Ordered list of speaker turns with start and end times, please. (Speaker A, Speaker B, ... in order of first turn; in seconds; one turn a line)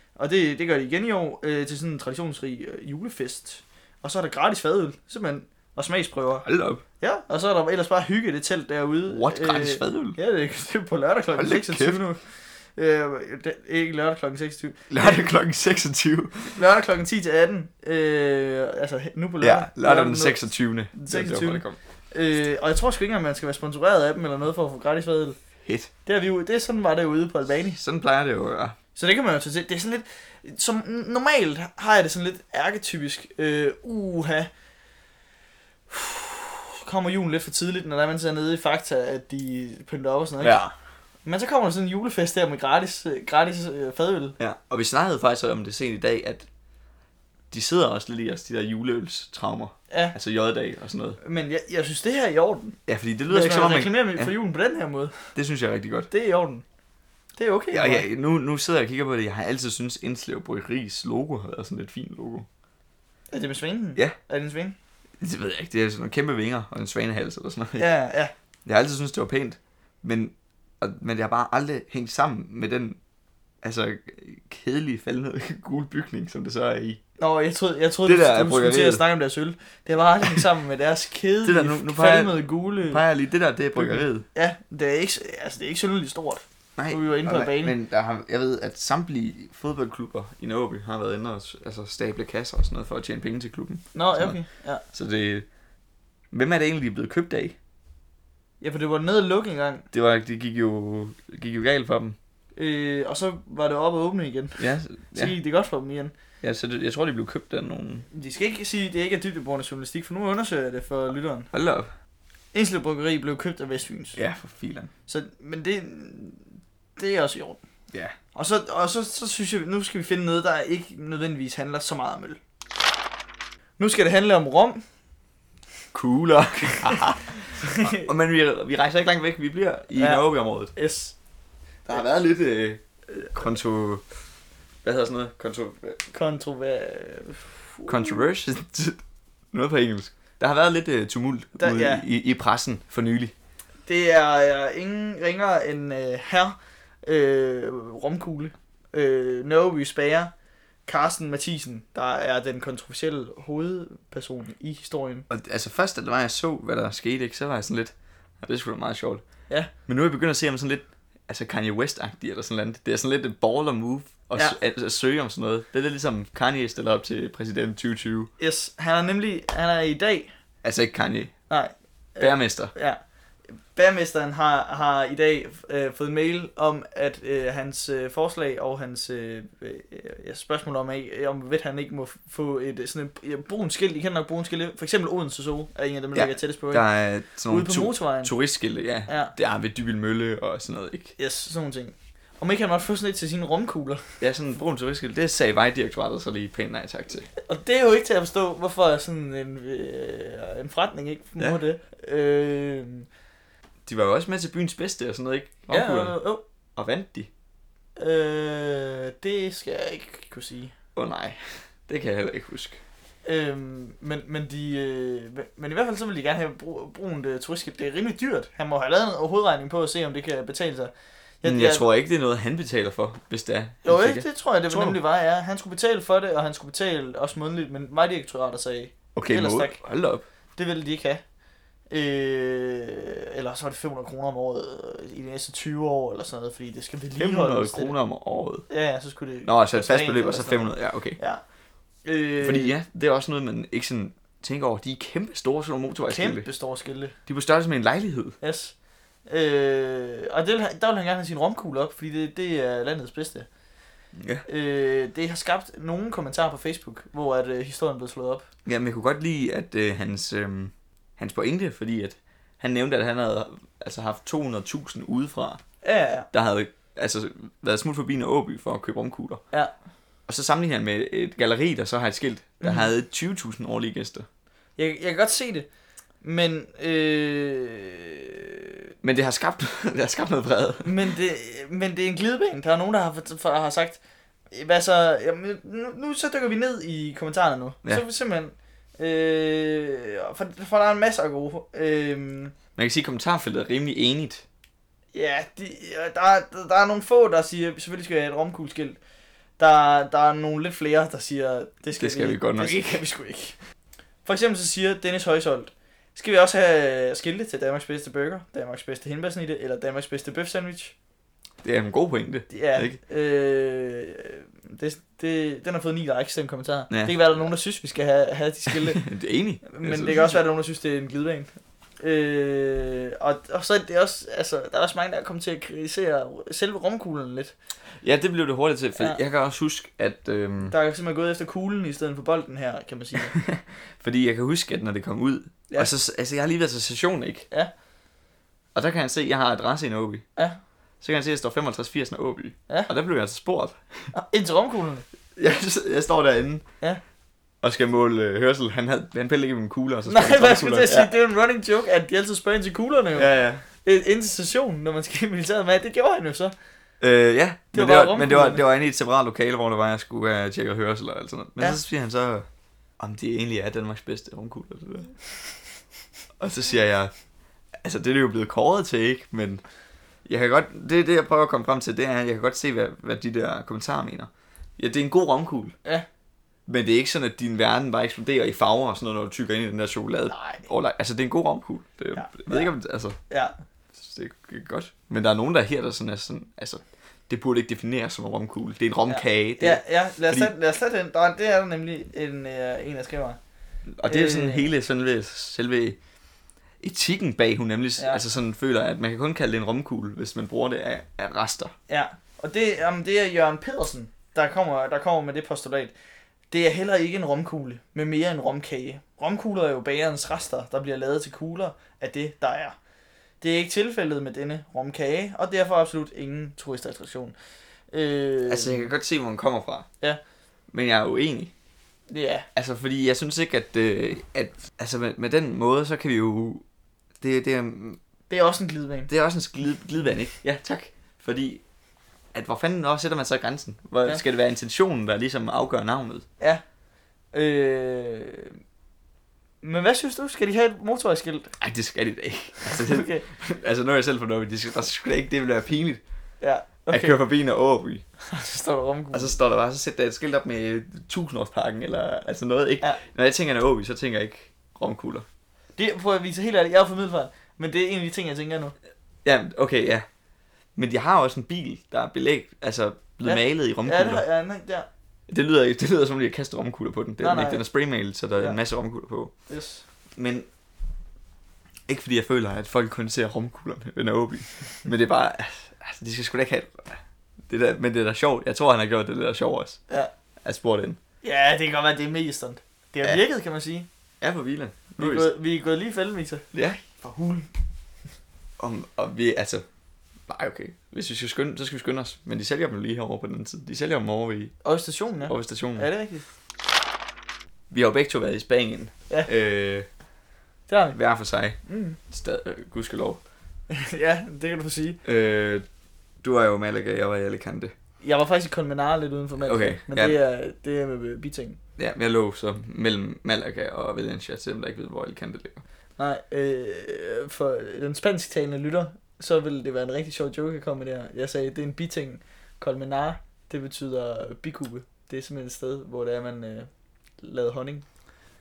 Speaker A: 0.2-6.5
Speaker B: 6.5-6.8
Speaker A: 7.0-15.3
Speaker B: 9.1-10.2
Speaker B: 11.4-12.0
Speaker B: 14.9-16.6
Speaker A: 16.6-25.4
Speaker B: 19.4-21.8
Speaker B: 25.6-25.9
Speaker A: 26.1-27.8
Speaker B: 27.8-28.8
Speaker A: 28.9-34.5
Speaker A: 35.9-40.6
Speaker B: 40.4-40.7
Speaker A: 41.2-44.4
Speaker B: 44.4-46.5
Speaker B: 47.5-51.2
Speaker A: 49.9-50.2
Speaker A: 51.2-55.3
Speaker B: 52.9-54.3
Speaker B: 55.4-56.1
Speaker A: 56.1-56.6
Speaker A: 57.4-58.1
Speaker B: 57.7-62.5
Speaker A: 63.3-64.8
Speaker B: 65.2-67.9
Speaker A: 67.8-68.3
Speaker B: 68.7-73.0
Speaker B: 73.6-77.0
Speaker A: 77.2-83.0
Speaker B: 78.0-79.0
Speaker B: 81.4-84.2
Speaker A: 83.8-87.8
Speaker B: 86.8-95.5
Speaker A: 93.9-94.8
Speaker B: 96.3-97.6
Speaker A: 98.6-99.9
Speaker B: 99.9-102.2
Speaker A: 102.6-106.1
Speaker B: 104.6-105.4
Speaker B: 106.4-108.1
Speaker A: 108.1-111.5
Speaker B: 111.5-111.9
Speaker A: 112.5-114.2
Speaker B: 114.2-114.9
Speaker A: 115.1-117.6
Speaker A: 118.3-122.4
Speaker A: 123.8-124.8
Speaker B: 125.9-130.7
Speaker A: 130.0-131.2
Speaker B: 131.8-132.8
Speaker B: 133.3-134.0
Speaker B: 134.8-136.0
Speaker A: 136.1-138.2
Speaker B: 137.9-139.0
Speaker B: 139.5-143.3
Speaker A: 141.6-142.1
Speaker A: 143.9-150.3
Speaker A: 150.9-155.3
Speaker B: 155.3-159.2
Speaker B: 159.9-168.3
Speaker A: 168.4-170.3
Speaker B: 170.6-171.3
Speaker A: 171.5-173.0
Speaker B: 172.2-172.7
Speaker A: 173.7-186.9
Speaker B: 186.2-191.2
Speaker A: 187.5-188.3
Speaker A: 189.1-189.3
Speaker A: 191.2-194.1
Speaker B: 194.2-197.3
Speaker A: 197.5-203.1
Speaker B: 203.8-206.2
Speaker A: 205.7-206.4
Speaker B: 206.8-207.3
Speaker A: 208.0-210.7
Speaker B: 211.0-212.8
Speaker A: 213.2-221.9
Speaker B: 221.4-225.0
Speaker A: 223.8-229.8
Speaker B: 229.2-230.2
Speaker A: 230.6-231.2
Speaker A: 231.9-237.9
Speaker B: 237.2-238.7
Speaker A: 238.7-241.4
Speaker B: 239.4-241.2
Speaker A: 242.0-242.8
Speaker B: 242.4-246.5
Speaker A: 246.1-247.2
Speaker B: 247.3-248.3
Speaker A: 248.4-248.8
Speaker A: 249.3-253.5
Speaker B: 254.2-254.4
Speaker A: 254.5-258.4
Speaker B: 258.7-265.6
Speaker A: 265.8-266.3
Speaker B: 266.3-269.4
Speaker B: 270.3-274.3
Speaker A: 272.6-272.9
Speaker A: 274.8-275.7
Speaker A: 276.2-278.6
Speaker B: 279.0-281.1
Speaker A: 280.8-284.0
Speaker A: 284.5-292.5
Speaker B: 292.8-294.4
Speaker A: 295.1-299.0
Speaker A: 299.6-303.6
Speaker B: 302.0-303.0
Speaker A: 304.2-310.9
Speaker B: 311.6-313.0
Speaker A: 312.5-319.1
Speaker B: 316.9-317.1
Speaker B: 318.7-320.4
Speaker A: 319.6-327.5
Speaker B: 328.0-330.8
Speaker A: 330.7-333.4
Speaker B: 333.4-337.5
Speaker B: 338.8-340.2
Speaker B: 341.0-344.1
Speaker A: 344.1-345.1
Speaker B: 345.4-346.6
Speaker B: 347.6-351.1
Speaker A: 350.1-356.6
Speaker B: 353.1-353.6
Speaker B: 357.0-362.5
Speaker A: 357.7-358.6
Speaker B: 363.0-365.2
Speaker B: 366.4-367.1
Speaker B: 367.8-369.6
Speaker B: 370.3-375.8
Speaker B: 376.7-383.2
Speaker A: 380.3-380.7
Speaker A: 382.1-382.7
Speaker B: 383.9-390.5
Speaker A: 389.1-393.4
Speaker B: 393.9-396.0
Speaker A: 394.1-394.7
Speaker B: 396.8-401.7
Speaker A: 398.0-398.2
Speaker A: 401.9-405.9
Speaker A: 406.5-412.8
Speaker A: 413.4-417.4
Speaker A: 417.9-418.9
Speaker B: 418.5-419.9
Speaker B: 420.7-421.5
Speaker A: 422.1-422.5
Speaker B: 422.6-426.6
Speaker B: 427.2-428.0
Speaker A: 428.3-429.1
Speaker B: 429.1-431.6
Speaker B: 432.3-436.2
Speaker A: 437.3-438.6
Speaker A: 439.6-441.6
Speaker B: 441.6-446.0
Speaker A: 442.7-443.3
Speaker A: 446.4-447.2
Speaker B: 446.9-448.0
Speaker A: 448.3-449.4
Speaker B: 449.1-455.2
Speaker A: 455.8-458.7
Speaker B: 459.2-460.1
Speaker B: 460.8-464.2
Speaker A: 463.2-464.9
Speaker B: 465.3-469.3
Speaker A: 467.2-467.6
Speaker A: 469.5-469.8
Speaker B: 470.2-470.5
Speaker B: 471.9-477.0
Speaker B: 477.5-479.8
Speaker B: 480.4-481.0
Speaker A: 481.2-483.9
Speaker B: 484.2-485.3
Speaker A: 485.0-487.5
Speaker B: 486.5-486.8
Speaker B: 488.6-489.6
Speaker B: 490.3-494.6
Speaker A: 494.6-496.2
Speaker B: 495.3-495.9
Speaker B: 497.7-499.9
Speaker A: 500.7-501.0
Speaker B: 500.9-501.6
Speaker A: 501.7-502.0
Speaker B: 502.1-503.2
Speaker A: 503.7-505.0
Speaker B: 505.0-505.6
Speaker B: 506.2-507.7
Speaker A: 508.0-511.6
Speaker B: 509.4-510.2
Speaker B: 511.8-515.6
Speaker A: 516.0-527.8